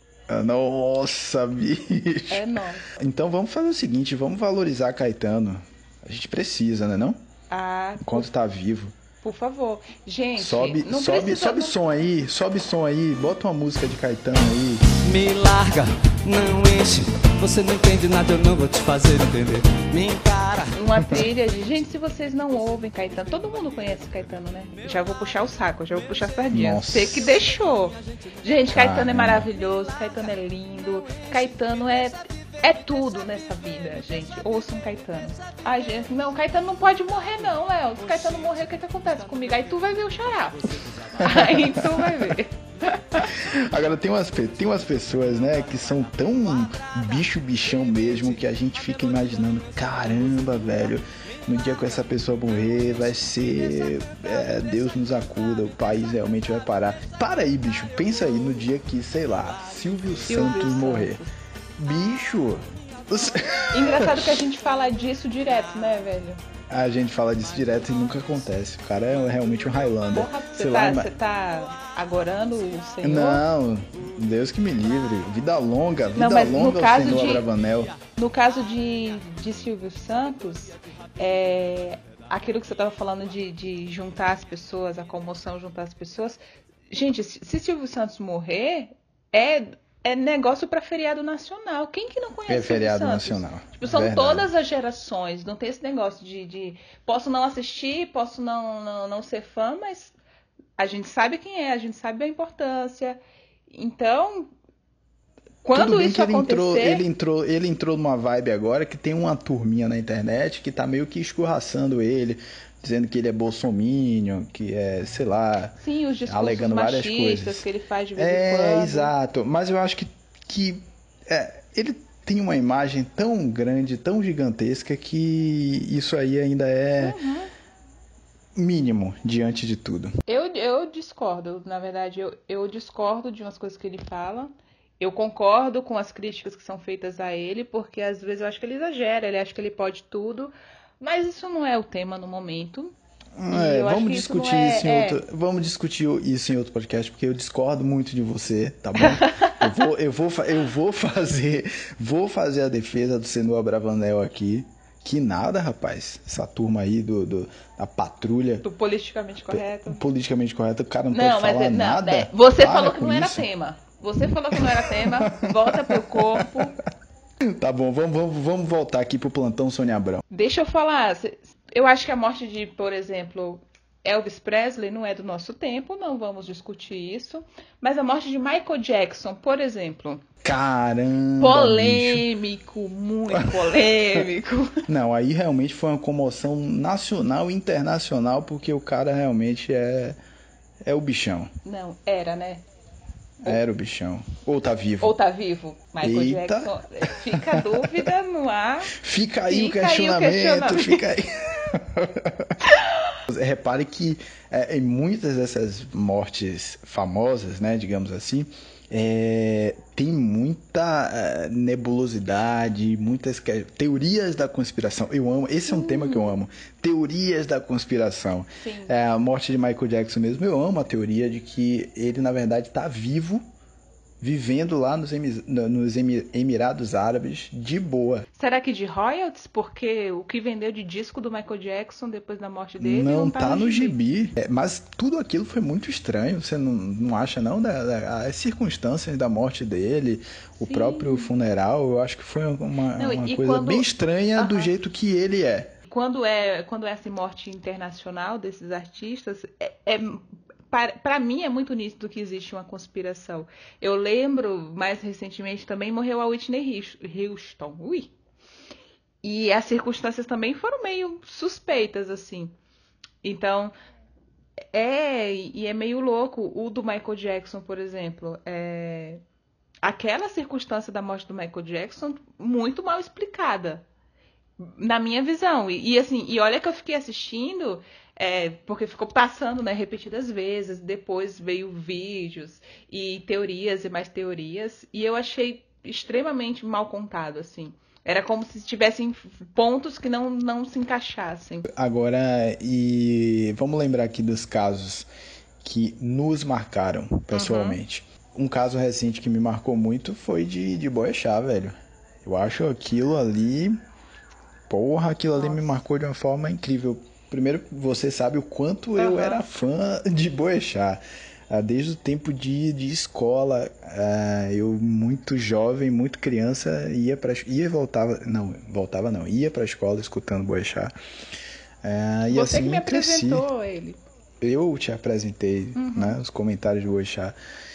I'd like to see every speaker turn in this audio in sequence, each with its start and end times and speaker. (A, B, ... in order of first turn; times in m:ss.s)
0:00.3-0:07.2 A
0:02.3-0:02.9 B
0:07.5-0:08.3 B
0:08.0-0:09.0 A
0:09.2-0:11.8 B
0:10.4-0:14.8 A
0:15.0-0:20.7 C
0:20.7-0:43.3 B
0:26.5-0:27.3 A
0:28.7-0:29.5 A
0:41.2-0:42.3 A
0:43.3-1:01.2 A
1:00.3-1:01.3 B
1:01.8-1:04.4 A
1:03.7-1:06.4 B
1:06.7-1:11.1 A
1:10.1-1:13.4 B
1:13.0-1:17.9 A
1:16.2-1:17.5 B
1:18.1-1:26.4 B
1:26.9-1:40.1 B
1:32.5-1:34.5 A
1:40.8-1:43.2 B
1:43.7-1:44.5 B
1:45.6-1:47.0 B
1:45.7-1:57.6 A
1:55.8-1:59.1 B
1:58.2-2:07.2 A
2:07.0-2:07.5 B
2:08.6-2:10.1 A
2:10.3-2:22.9 B
2:23.4-2:38.6 A
2:23.5-2:25.2 B
2:29.0-2:29.6 B
2:38.6-2:40.0 B
2:39.5-2:43.5 A
2:41.1-2:46.8 B
2:44.5-2:46.5 A
2:47.4-2:50.2 A
2:50.3-3:00.2 B
3:00.4-3:02.2 A
3:01.4-3:04.9 B
3:03.3-3:03.8 A
3:04.9-3:10.2 A
3:10.8-3:11.5 A
3:11.6-3:12.6 B
3:13.4-3:15.2 A
3:15.0-3:18.9 B
3:16.0-3:18.0 A
3:18.9-3:22.6 A
3:19.5-3:21.1 B
3:23.3-3:43.4 A
3:35.7-3:36.4 B
3:38.6-3:39.0 B
3:44.2-3:48.3 A
3:48.4-3:54.0 B
3:52.8-4:05.8 A
4:00.6-4:01.3 B
4:03.0-4:04.7 B
4:05.9-4:18.1 B
4:19.2-4:22.5 B
4:23.2-4:23.7 B
4:24.7-4:29.2 B
4:29.8-4:33.8 B
4:34.6-4:51.6 B
4:51.6-4:55.1 A
4:55.6-5:03.8 A
4:57.3-4:57.8 B
5:04.7-5:20.9 A
5:05.4-5:05.6 B
5:09.0-5:09.4 B
5:21.8-5:23.5 A
5:22.3-5:24.0 B
5:24.4-5:27.4 A
5:25.8-5:26.2 B